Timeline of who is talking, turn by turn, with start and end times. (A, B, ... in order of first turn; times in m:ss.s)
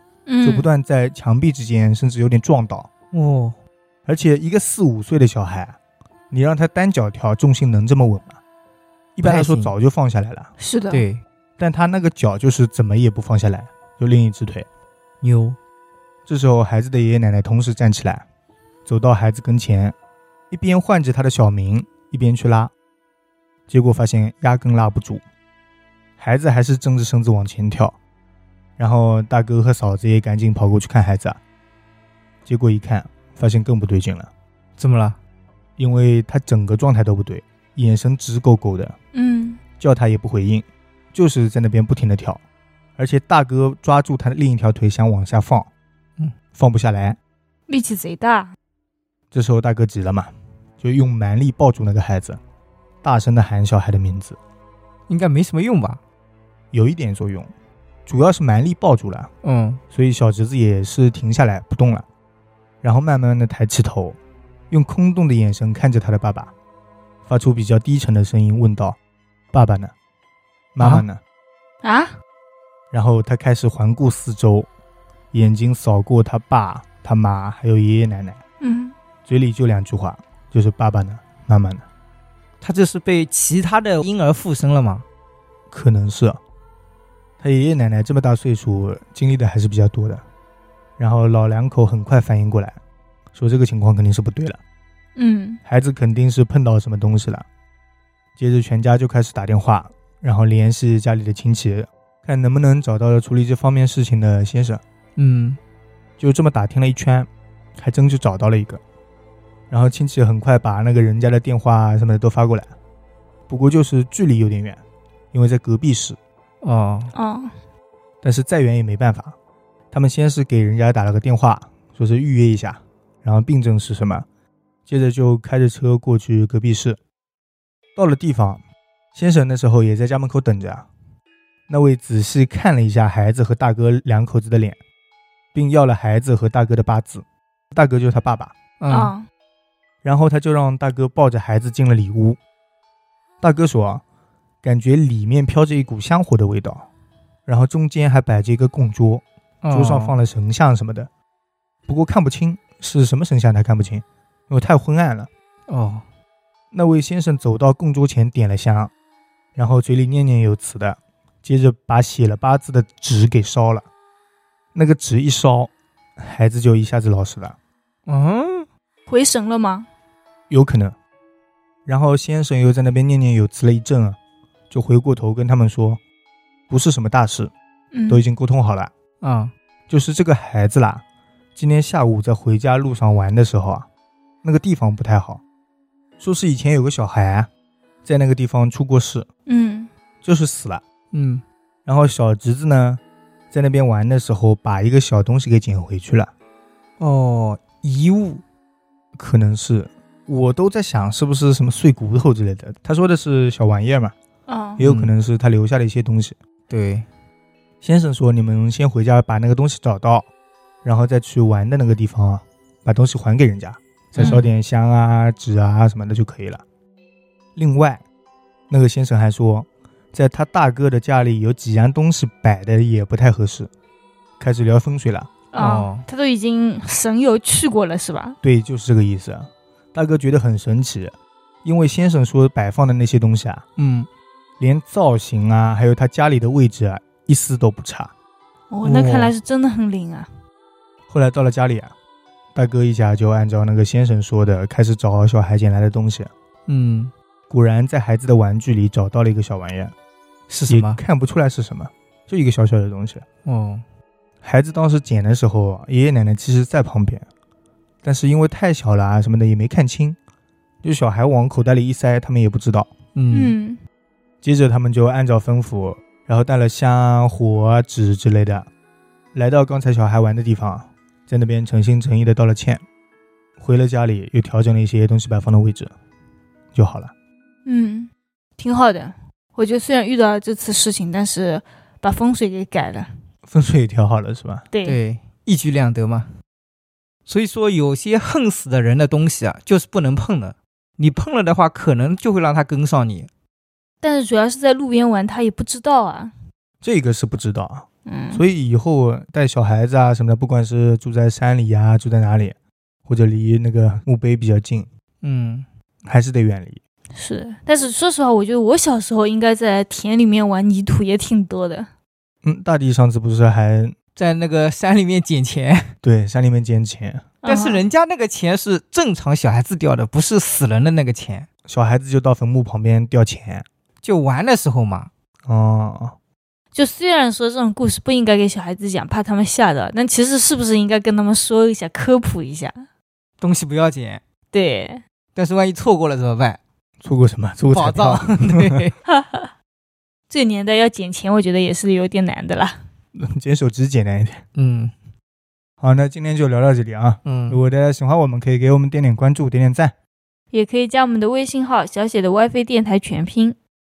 0:00.3-0:00.7 A
0:00.4-0:02.9 B
0:03.1-0:03.6 C
0:04.1-0:05.8 B
0:06.3-0:08.4 B
0:09.2-0:10.5 B
0:09.2-0:09.7 C
0:10.6-0:11.0 A
0:10.9-0:11.2 C
0:11.6-0:14.7 B
0:15.2-0:15.6 C
0:16.3-0:18.2 B
0:18.9-0:20.0 B
0:20.5-0:22.7 B
0:23.7-0:25.2 B
0:26.2-0:28.0 B
0:28.8-0:31.4 B
0:32.5-0:34.3 B
0:34.8-0:35.2 C
0:35.8-0:39.0 B
0:39.1-0:39.6 A
0:39.8-0:42.4 B
0:43.0-0:45.7 B
0:46.6-0:47.2 B
0:47.7-0:48.6 A
0:49.3-0:52.4 B
0:53.0-0:54.4 B
0:55.1-0:56.0 C
0:56.7-0:57.5 B
0:58.1-0:59.3 B
0:59.4-0:59.8 C
0:59.9-1:02.0 B
1:02.8-1:04.2 B
1:04.7-1:06.5 B
1:07.3-1:09.0 B
1:09.5-1:09.9 B
1:10.8-1:11.2 B
1:11.8-1:12.1 A
1:12.9-1:14.7 B
1:15.3-1:18.4 B
1:18.6-1:18.9 A
1:19.2-1:21.8 B
1:22.6-1:25.0 C
1:25.7-1:26.4 B
1:27.4-1:30.2 B
1:31.0-1:32.8 B
1:33.3-1:34.6 B
1:35.2-1:35.6 A
1:35.7-1:37.5 B
1:38.4-1:44.8 B
1:45.2-1:45.6 C
1:46.2-1:48.8 B
1:49.7-1:52.7 B
1:53.5-1:54.8 B
1:55.3-1:56.2 B
1:56.6-1:57.1 C
1:57.1-1:57.5 A
1:58.2-1:59.4 B
1:59.9-2:04.2 B
2:04.9-2:07.0 B
2:08.0-2:08.6 B
2:09.1-2:10.9 B
2:11.7-2:14.8 B
2:15.5-2:18.6 B
2:18.8-2:19.2 C
2:18.9-2:19.3 A
2:20.0-2:22.4 B
2:23.4-2:24.0 B
2:24.6-2:26.9 B
2:27.5-2:31.1 B
2:29.6-2:30.1 C
2:31.9-2:35.3 B
2:35.7-2:36.0 C
2:36.7-2:38.9 B
2:39.6-2:43.8 B
2:44.7-2:47.6 B
2:48.1-2:48.7 C
2:49.1-2:49.9 A
2:50.5-2:51.0 B
2:51.9-2:54.2 B
2:54.7-2:56.0 B
2:56.7-2:57.5 B
2:57.9-2:58.2 A
2:58.1-2:58.9 B
2:59.2-2:59.5 C
2:59.9-3:01.0 B
3:01.6-3:03.9 B
3:04.4-3:05.4 B
3:06.2-3:07.5 B
3:08.0-3:09.3 B
3:09.5-3:09.9 A
3:10.2-3:10.8 B
3:11.1-3:11.4 C
3:11.9-3:16.3 B
3:17.0-3:18.4 C
3:19.2-3:24.1 B
3:24.5-3:24.8 A
3:24.8-3:26.4 B
3:24.8-3:25.1 C
3:26.7-3:27.1 C
3:27.8-3:30.3 B
3:30.8-3:36.6 B
3:34.2-3:34.4 C
3:37.6-3:38.0 B
3:38.7-3:43.7 B
3:44.4-3:45.3 B
3:45.5-3:48.4 A
3:45.6-3:46.0 C
3:48.4-3:53.6 B
3:53.8-3:54.1 C
3:54.6-3:58.1 B
3:58.7-4:00.3 A
3:58.8-3:59.3 C
4:01.1-4:01.9 B
4:02.5-4:06.3 B
4:06.7-4:07.1 C
4:07.5-4:09.9 B
4:10.5-4:11.0 C
4:10.7-4:13.2 B
4:13.4-4:13.8 C
4:14.4-4:17.3 B
4:18.0-4:20.2 B
4:20.8-4:22.9 B
4:23.2-4:23.6 C
4:23.3-4:23.8 A
4:24.4-4:28.7 B
4:29.3-4:32.8 B
4:33.6-4:35.9 B
4:36.7-4:37.1 B
4:37.6-4:43.1 A
4:43.5-4:44.6 B
4:44.7-4:45.0 A
4:44.8-4:46.3 C
4:47.3-4:53.3 C
4:54.0-4:56.3 A
4:56.8-5:04.9 B
4:58.1-4:58.4 A
5:05.2-5:05.6 C
5:06.1-5:06.8 B
5:07.2-5:11.9 A
5:12.4-5:14.0 B
5:14.2-5:15.9 C
5:16.0-5:17.3 B
5:17.4-5:17.8 A
5:17.4-5:21.5 C
5:21.7-5:23.7 B
5:24.0-5:25.1 C
5:25.5-5:26.2 B
5:26.8-5:32.8 A
5:33.4-5:34.2 C
5:34.5-5:35.0 A
5:35.4-5:36.6 C
5:37.0-5:38.8 B
5:37.7-5:38.9 C
5:39.1-5:39.5 A
5:40.3-5:42.8 A
5:43.1-5:44.4 B
5:44.6-5:44.9 C
5:45.8-5:49.9 B
5:47.2-5:47.6 C
5:50.5-5:53.6 A